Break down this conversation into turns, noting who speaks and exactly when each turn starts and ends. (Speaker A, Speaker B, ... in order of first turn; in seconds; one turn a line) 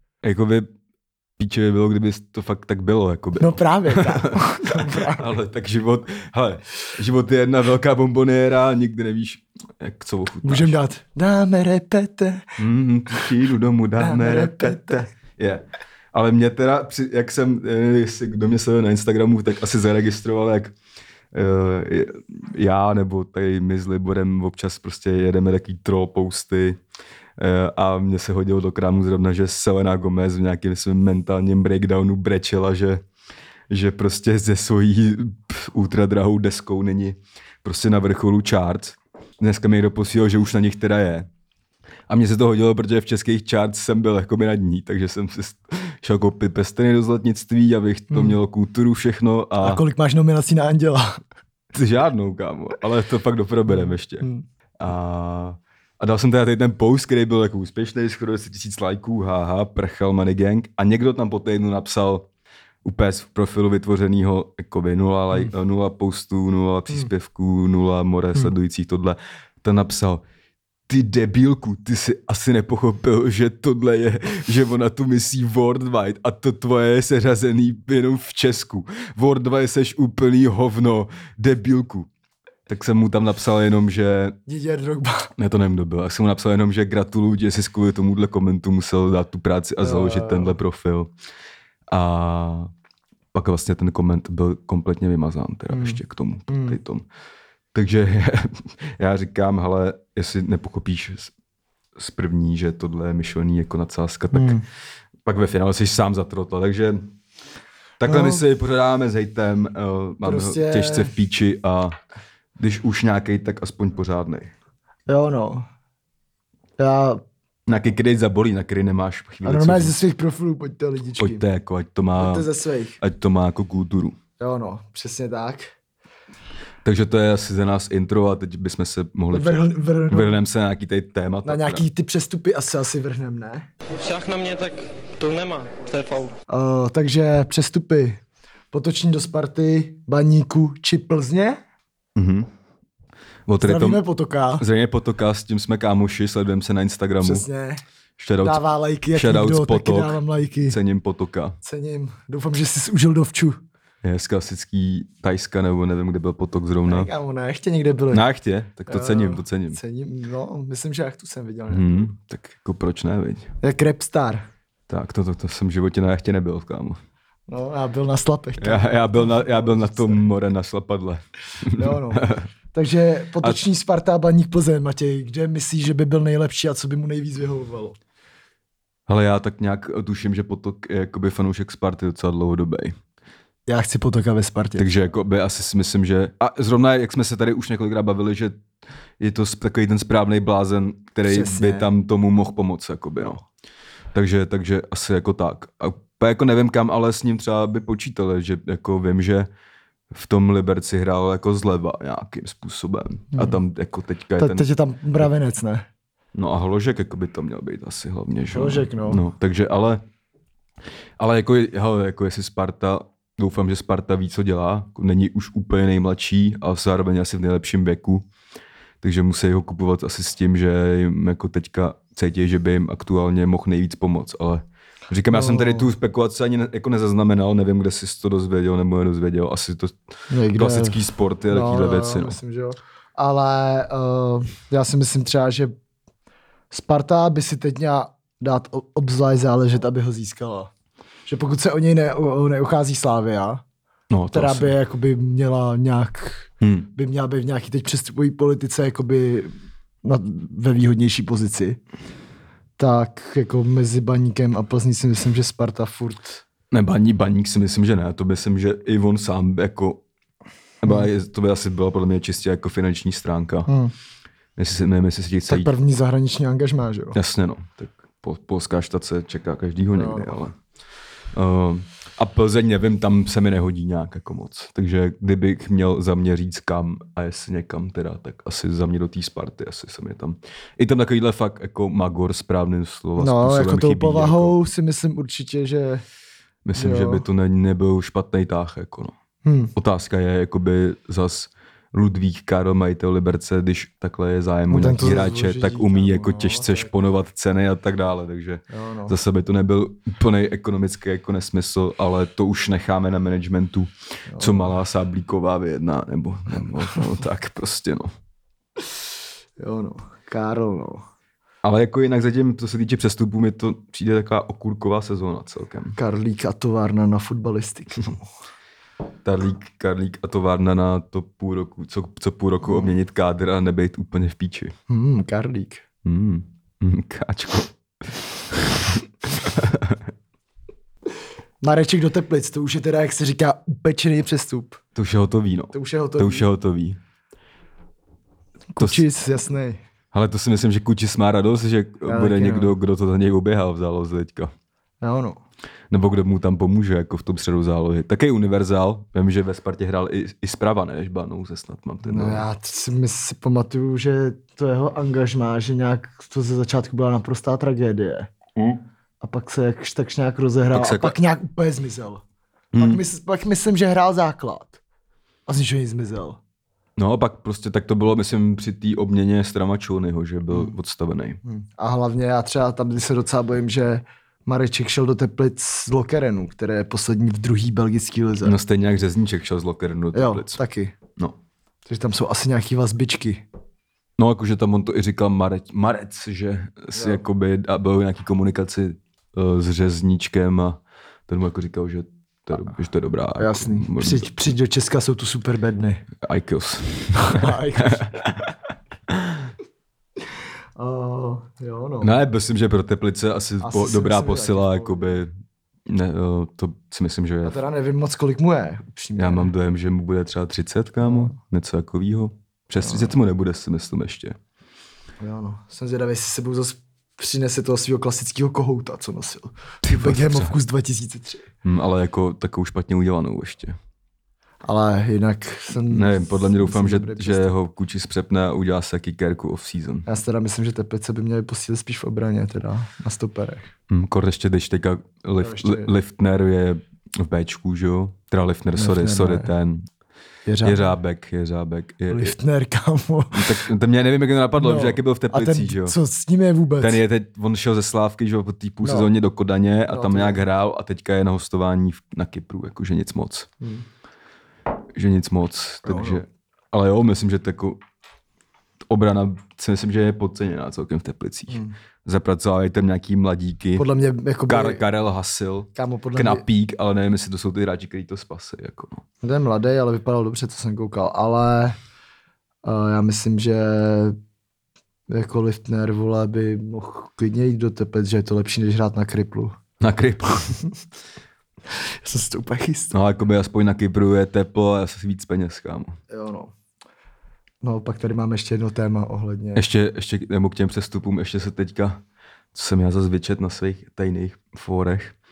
Speaker A: 0.2-0.7
Speaker A: 1.4-10.8
Speaker B: 3.4-5.3
Speaker B: 10.4-12.6
Speaker A: 12.6-20.8
Speaker B: 14.0-15.1
Speaker A: 21.3-26.8
Speaker A: 27.4-33.0
Speaker A: 33.7-41.3
Speaker A: 42.1-49.8
Speaker B: 48.1-48.4
Speaker B: 49.6-51.2
Speaker A: 51.7-54.3
Speaker B: 53.7-54.5
Speaker A: 54.8-62.3
Speaker A: 62.8-70.2
Speaker A: 70.9-82.1
Speaker A: 82.7-84.4
Speaker B: 84.5-85.3
Speaker A: 85.4-91.1
Speaker B: 89.8-90.5
Speaker A: 91.9-92.7
Speaker A: 93.3-97.0
Speaker B: 95.7-96.8
Speaker A: 97.7-101.3
Speaker A: 102.0-104.6
Speaker B: 104.3-104.7
Speaker A: 105.2-107.1
Speaker A: 108.0-112.0
Speaker B: 108.0-108.4
Speaker B: 110.2-111.1
Speaker A: 112.6-114.5
Speaker B: 115.1-115.7
Speaker B: 116.8-117.2
Speaker A: 117.7-120.0
Speaker B: 119.5-121.4
Speaker A: 121.2-122.5
Speaker B: 122.2-123.0
Speaker A: 123.0-124.2
Speaker B: 124.4-125.7
Speaker A: 126.8-131.9
Speaker B: 129.3-130.4
Speaker B: 131.4-133.7
Speaker C: 134.0-136.3
Speaker B: 136.5-138.2
Speaker B: 138.7-141.6
Speaker A: 142.2-142.5
Speaker A: 143.5-144.0
Speaker B: 143.6-144.7
Speaker A: 144.6-147.5
Speaker B: 147.2-147.8
Speaker A: 148.2-148.6
Speaker B: 148.4-150.8
Speaker A: 149.1-151.6
Speaker B: 151.6-153.6
Speaker A: 154.0-157.1
Speaker B: 156.9-158.2
Speaker A: 158.1-159.8
Speaker B: 158.9-162.1
Speaker A: 161.7-163.5
Speaker B: 163.6-164.5
Speaker A: 164.9-167.0
Speaker B: 167.5-170.2
Speaker A: 168.6-172.5
Speaker B: 171.8-178.0
Speaker A: 179.1-183.0
Speaker B: 183.7-184.9
Speaker A: 184.8-188.6
Speaker A: 189.2-193.4
Speaker B: 191.2-191.9
Speaker A: 194.1-199.5
Speaker A: 200.1-205.3
Speaker B: 203.3-203.6
Speaker B: 204.4-205.8
Speaker A: 206.3-210.0
Speaker B: 208.5-209.2
Speaker A: 211.2-218.3
Speaker A: 219.0-230.0
Speaker B: 225.3-225.9
Speaker B: 230.3-235.7
Speaker A: 230.5-232.4
Speaker B: 236.7-240.7
Speaker B: 241.3-243.6
Speaker A: 244.1-244.7
Speaker B: 244.3-251.8
Speaker A: 246.6-246.9
Speaker B: 252.8-256.4
Speaker A: 256.7-260.0
Speaker A: 260.8-263.7
Speaker B: 263.7-263.9
Speaker A: 264.6-265.7
Speaker B: 265.5-267.2
Speaker A: 267.1-270.6
Speaker B: 269.9-270.4
Speaker A: 271.3-284.6
Speaker B: 283.2-286.0
Speaker A: 286.6-289.1
Speaker B: 286.7-287.2
Speaker B: 289.4-289.7
Speaker A: 289.8-308.1
Speaker B: 294.7-296.9
Speaker B: 298.7-299.1
Speaker B: 304.3-304.7
Speaker B: 309.6-311.1
Speaker A: 311.6-316.0
Speaker B: 316.0-318.3
Speaker A: 319.2-324.7
Speaker B: 322.6-322.9
Speaker B: 324.9-325.8
Speaker A: 326.1-330.1
Speaker B: 331.6-334.8
Speaker A: 334.9-337.0
Speaker B: 335.7-336.5
Speaker B: 338.7-339.8
Speaker A: 338.8-339.1
Speaker A: 340.1-344.5
Speaker B: 342.1-342.8
Speaker B: 345.0-345.4
Speaker A: 345.9-352.5
Speaker B: 352.0-358.3
Speaker A: 358.6-358.8
Speaker B: 359.2-362.2
Speaker A: 360.7-361.2
Speaker A: 362.7-363.0
Speaker B: 362.8-364.8
Speaker B: 365.5-366.4
Speaker A: 367.0-371.4
Speaker B: 370.5-370.8
Speaker B: 371.4-378.6
Speaker A: 378.4-380.6
Speaker B: 380.1-380.9
Speaker B: 381.9-383.4
Speaker A: 384.2-394.5
Speaker B: 386.9-387.2
Speaker B: 393.4-396.1
Speaker A: 396.2-398.5
Speaker B: 397.2-398.1
Speaker A: 399.1-399.5
Speaker B: 400.8-402.1
Speaker A: 402.0-405.3
Speaker B: 403.6-405.2
Speaker A: 405.9-407.6
Speaker B: 407.4-409.5
Speaker A: 409.2-414.4
Speaker B: 411.0-411.4
Speaker B: 412.8-413.1
Speaker B: 415.2-421.5
Speaker A: 419.8-420.5
Speaker A: 421.6-423.8
Speaker B: 424.6-427.5
Speaker A: 425.9-430.1
Speaker B: 430.1-433.7
Speaker A: 433.9-439.9
Speaker B: 435.4-435.9
Speaker B: 438.8-439.5
Speaker B: 440.5-441.0
Speaker A: 440.6-442.4
Speaker B: 442.1-443.6
Speaker A: 443.3-446.0
Speaker B: 444.6-447.0
Speaker A: 446.8-453.5
Speaker B: 448.8-449.1
Speaker B: 449.9-450.4
Speaker A: 454.9-457.8
Speaker B: 455.9-456.2
Speaker A: 458.9-463.9
Speaker B: 461.5-461.8
Speaker B: 463.8-464.8
Speaker A: 464.5-469.0
Speaker B: 465.8-466.4
Speaker B: 469.2-471.8
Speaker B: 472.6-474.2
Speaker B: 475.1-479.6
Speaker A: 479.8-480.4
Speaker B: 481.7-482.9
Speaker A: 482.9-486.0
Speaker B: 486.1-486.5
Speaker B: 487.6-489.6
Speaker A: 489.6-492.0
Speaker A: 492.5-495.1